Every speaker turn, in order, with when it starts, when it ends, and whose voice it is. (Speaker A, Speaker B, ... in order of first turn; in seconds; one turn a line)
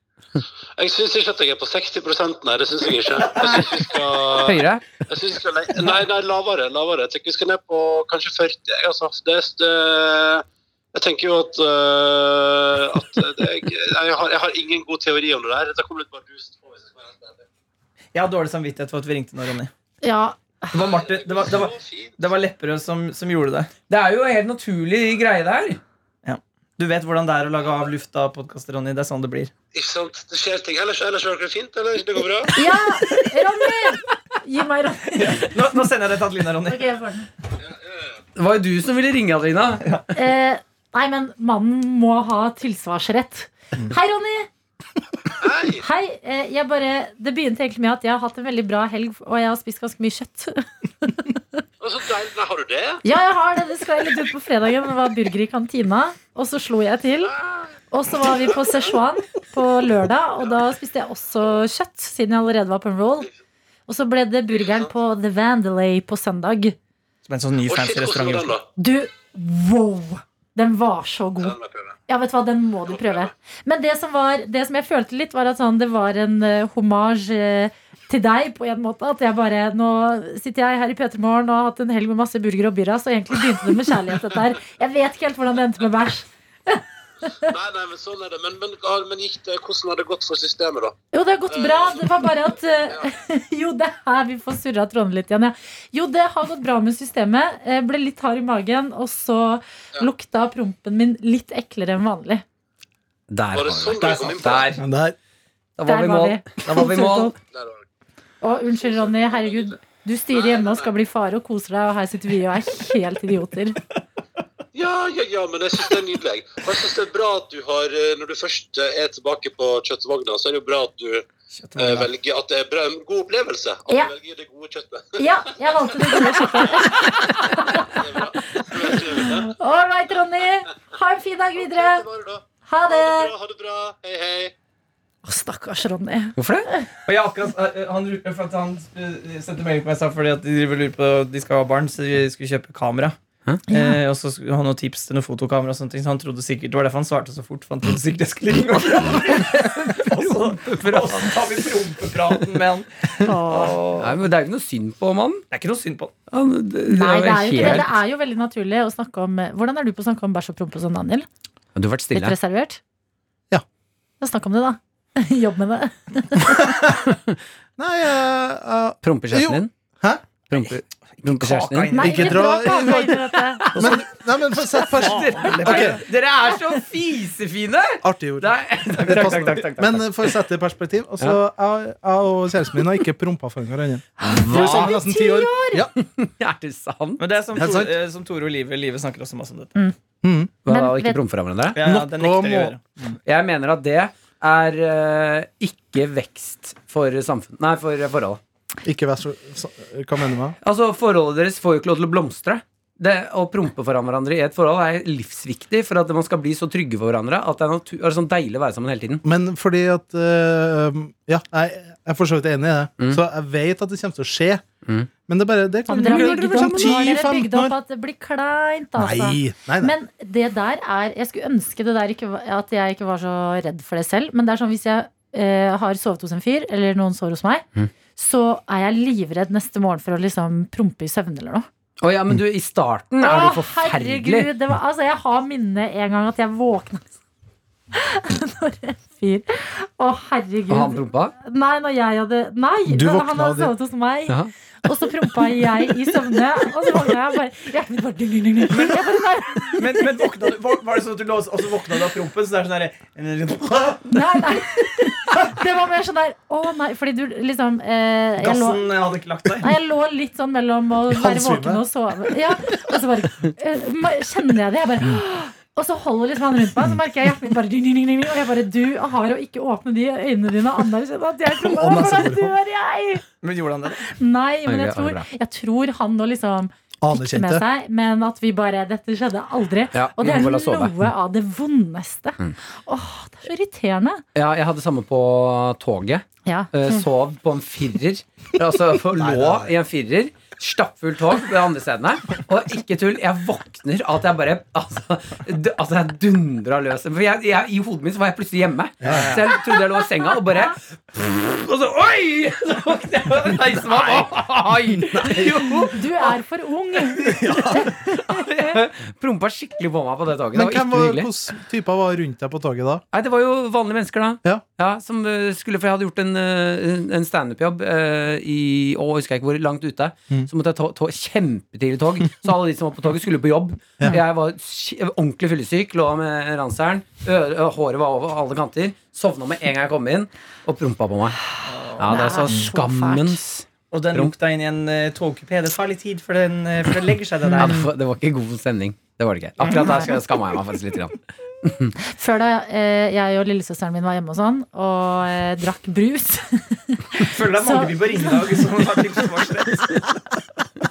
Speaker A: 0.8-17.4
Speaker B: 3.4-3.7
Speaker C: 4.3-4.9
Speaker B: 18.1-19.7
Speaker D: 20.0-20.7
Speaker B: 20.7-23.7
Speaker A: 20.8-22.2
Speaker C: 23.9-25.8
Speaker B: 26.2-29.5
Speaker A: 29.7-32.5
Speaker D: 32.5-35.4
Speaker B: 35.1-36.9
Speaker D: 36.7-37.3
Speaker A: 37.6-38.1
Speaker C: 38.4-39.8
Speaker D: 40.1-44.5
Speaker A: 45.3-45.8
Speaker D: 45.8-51.4
Speaker A: 51.8-53.0
Speaker D: 53.0-57.3
Speaker D: 57.9-63.3
Speaker D: 63.9-66.8
Speaker B: 67.2-68.5
Speaker A: 67.7-68.7
Speaker D: 68.8-71.5
Speaker A: 71.4-72.0
Speaker D: 72.1-87.5
Speaker A: 72.9-73.3
Speaker A: 87.4-90.9
Speaker D: 91.1-102.4
Speaker A: 91.5-92.2
Speaker C: 103.3-104.8
Speaker A: 103.5-104.8
Speaker B: 104.0-104.7
Speaker E: 104.8-105.2
Speaker C: 105.8-107.3
Speaker D: 105.8-107.3
Speaker A: 107.4-107.8
Speaker D: 108.4-113.8
Speaker A: 108.8-109.7
Speaker A: 110.3-110.9
Speaker A: 114.7-125.2
Speaker B: 121.5-122.1
Speaker D: 125.2-132.1
Speaker A: 125.9-126.8
Speaker A: 127.6-129.5
Speaker A: 131.6-134.5
Speaker D: 132.7-133.3
Speaker D: 135.2-136.8
Speaker C: 136.4-136.7
Speaker B: 137.1-143.2
Speaker D: 143.7-144.0
Speaker B: 143.7-154.2
Speaker C: 149.3-151.6
Speaker D: 153.2-153.9
Speaker C: 154.0-155.4
Speaker B: 155.5-156.1
Speaker C: 156.3-157.9
Speaker D: 156.9-161.3
Speaker C: 161.7-162.3
Speaker D: 162.1-162.8
Speaker D: 164.2-166.6
Speaker E: 166.5-166.9
Speaker E: 167.8-170.2
Speaker C: 169.0-169.7
Speaker C: 170.5-172.1
Speaker B: 171.2-172.5
Speaker D: 171.9-173.7
Speaker E: 172.0-176.0
Speaker C: 173.6-174.0
Speaker B: 173.7-174.0
Speaker C: 174.7-180.3
Speaker B: 174.9-176.0
Speaker E: 178.0-185.9
Speaker B: 178.9-179.6
Speaker D: 184.2-185.8
Speaker C: 184.2-184.9
Speaker C: 185.9-187.2
Speaker B: 187.2-189.7
Speaker E: 187.5-187.9
Speaker E: 190.2-190.5
Speaker C: 190.6-191.8
Speaker D: 190.7-191.2
Speaker B: 191.7-193.2
Speaker E: 191.8-192.8
Speaker C: 193.2-198.4
Speaker E: 198.8-200.5
Speaker C: 200.6-209.2
Speaker E: 209.2-214.6
Speaker E: 215.3-217.8
Speaker D: 215.9-231.7
Speaker C: 216.0-217.0
Speaker E: 218.9-219.9
Speaker C: 232.0-234.5
Speaker D: 233.2-237.1
Speaker D: 237.9-249.8
Speaker C: 240.7-241.3
Speaker E: 242.9-243.7
Speaker B: 248.7-249.0
Speaker B: 249.8-254.5
Speaker D: 254.1-258.9
Speaker B: 258.4-259.7
Speaker D: 259.6-273.2
Speaker E: 261.1-261.8
Speaker E: 271.6-272.5
Speaker B: 273.4-274.0
Speaker D: 274.0-284.2
Speaker C: 274.6-275.3
Speaker E: 277.0-277.6
Speaker C: 279.9-280.9
Speaker C: 284.3-306.2
Speaker D: 286.4-287.0
Speaker E: 289.1-289.7
Speaker E: 299.0-299.4
Speaker B: 299.1-299.4
Speaker E: 304.9-305.8
Speaker D: 305.8-307.8
Speaker C: 307.2-311.3
Speaker E: 307.2-307.9
Speaker E: 310.5-313.0
Speaker C: 313.1-331.4
Speaker B: 331.6-332.1
Speaker C: 332.0-334.3
Speaker D: 332.0-333.4
Speaker B: 333.9-337.8
Speaker D: 337.5-337.9
Speaker C: 337.6-341.9
Speaker B: 339.6-340.2
Speaker D: 342.0-349.2
Speaker B: 347.2-350.3